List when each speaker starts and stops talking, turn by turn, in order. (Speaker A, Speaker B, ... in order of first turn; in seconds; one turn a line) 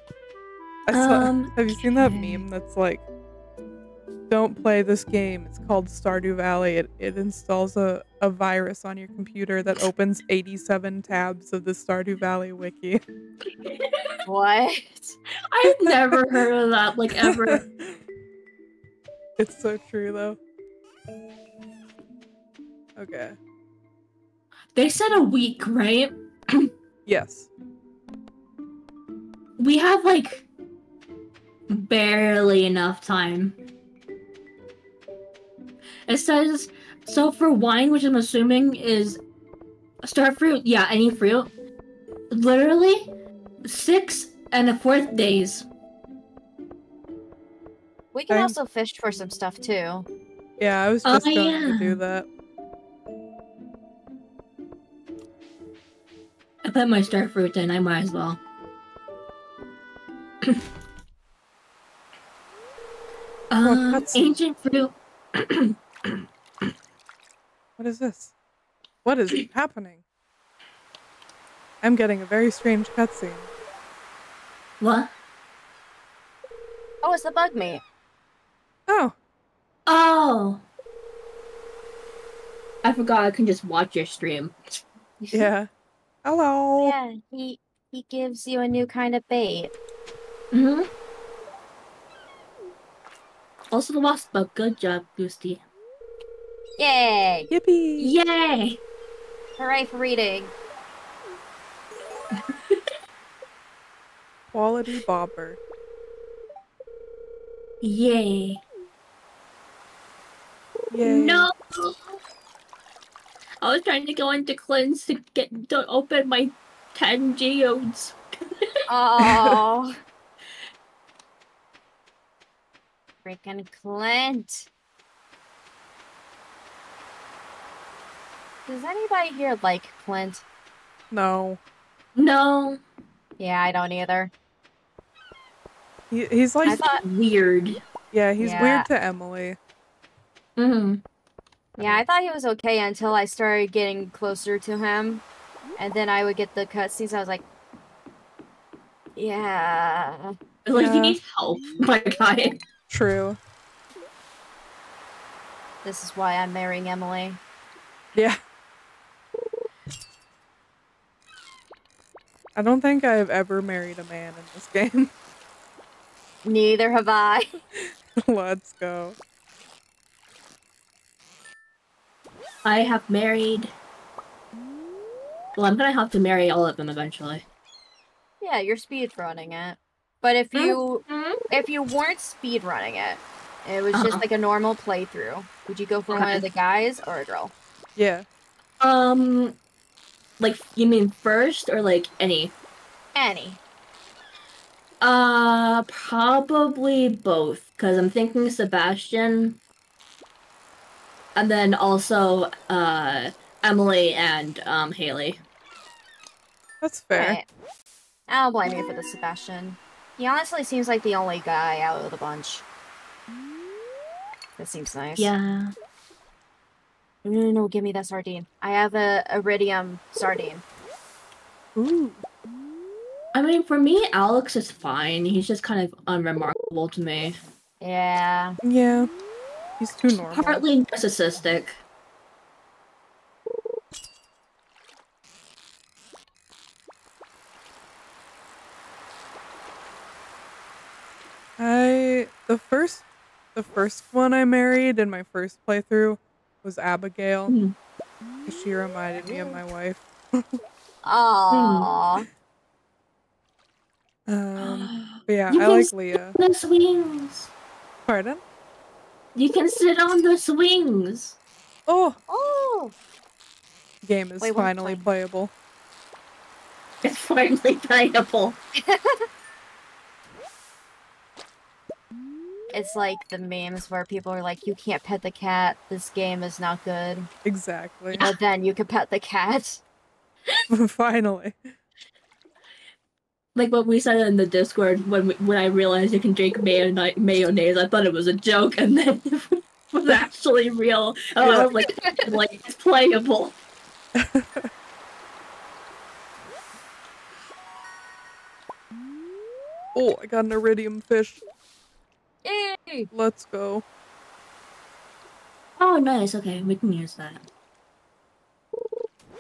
Speaker A: 0.9-3.0
Speaker B: 0.9-2.4
Speaker A: 4.3-13.0
Speaker B: 13.6-14.2
Speaker C: 14.3-15.2
Speaker B: 15.5-17.6
Speaker A: 15.7-16.5
Speaker A: 17.2-18.0
Speaker A: 19.4-20.4
Speaker A: 23.0-23.4
Speaker B: 24.8-26.7
Speaker A: 27.1-27.5
Speaker B: 29.6-30.5
Speaker B: 31.7-33.6
Speaker B: 36.1-39.2
Speaker B: 40.0-41.5
Speaker B: 42.3-43.1
Speaker B: 43.6-45.7
Speaker C: 48.1-50.1
Speaker A: 48.3-48.5
Speaker A: 50.6-52.3
Speaker B: 51.0-52.0
Speaker B: 56.6-58.4
Speaker B: 63.5-66.2
Speaker A: 63.6-64.4
Speaker A: 67.8-68.3
Speaker A: 69.0-70.0
Speaker A: 71.8-73.5
Speaker B: 74.8-75.1
Speaker C: 77.0-77.8
Speaker A: 78.9-79.2
Speaker B: 79.9-80.6
Speaker B: 82.8-84.6
Speaker A: 85.3-85.7
Speaker A: 86.2-87.0
Speaker C: 86.8-89.7
Speaker B: 90.5-90.9
Speaker B: 93.7-95.6
Speaker C: 96.8-97.5
Speaker A: 97.5-98.1
Speaker B: 98.0-98.8
Speaker C: 99.6-100.5
Speaker B: 102.4-102.9
Speaker A: 104.5-105.6
Speaker B: 107.8-108.6
Speaker A: 110.9-111.5
Speaker B: 111.0-112.2
Speaker B: 113.6-118.7
Speaker C: 118.9-119.9
Speaker A: 119.2-119.6
Speaker C: 123.2-124.7
Speaker C: 128.7-130.4
Speaker A: 131.1-131.6
Speaker B: 132.2-132.8
Speaker C: 133.4-134.3
Speaker A: 136.1-136.8
Speaker C: 136.7-137.0
Speaker B: 136.8-137.8
Speaker A: 138.1-139.6
Speaker C: 138.4-138.9
Speaker B: 140.6-141.0
Speaker C: 141.8-145.2
Speaker C: 145.8-147.4
Speaker C: 149.2-150.4
Speaker B: 150.7-152.6
Speaker A: 150.7-151.2
Speaker A: 152.9-153.4
Speaker C: 155.8-157.4
Speaker A: 158.1-158.4
Speaker A: 162.6-165.1
Speaker C: 166.4-167.5
Speaker A: 167.8-169.2
Speaker B: 172.7-173.7
Speaker B: 175.6-177.4
Speaker C: 178.4-187.5
Speaker B: 180.5-181.5
Speaker B: 183.9-184.2
Speaker B: 186.1-186.5
Speaker A: 188.0-188.3
Speaker B: 188.8-189.6
Speaker B: 190.4-192.5
Speaker C: 193.2-193.6
Speaker B: 195.0-199.6
Speaker B: 201.3-205.4
Speaker A: 206.8-207.4
Speaker C: 207.2-207.4
Speaker C: 208.3-212.7
Speaker C: 214.6-215.3
Speaker B: 215.2-215.7
Speaker C: 217.2-220.6
Speaker A: 221.8-222.2
Speaker B: 223.3-227.4
Speaker C: 227.8-228.6
Speaker A: 228.6-229.1
Speaker A: 229.8-230.6
Speaker B: 230.3-231.8
Speaker A: 241.6-247.6
Speaker B: 247.5-247.7
Speaker A: 248.4-250.6
Speaker C: 251.0-252.3
Speaker B: 251.5-251.9
Speaker A: 254.3-256.4
Speaker B: 254.6-257.5
Speaker A: 258.1-258.4
Speaker B: 259.4-261.4
Speaker A: 261.9-262.2
Speaker C: 262.3-262.9
Speaker A: 264.0-265.5
Speaker C: 264.4-265.1
Speaker B: 267.0-268.6
Speaker C: 268.7-269.3
Speaker C: 272.7-277.3
Speaker A: 277.4-278.3
Speaker C: 278.2-279.8
Speaker A: 280.7-281.7
Speaker B: 283.6-293.6
Speaker A: 291.4-291.7
Speaker C: 291.4-292.3
Speaker A: 294.1-294.7
Speaker A: 299.9-301.4
Speaker C: 302.4-303.1
Speaker A: 303.1-303.8
Speaker B: 305.8-307.4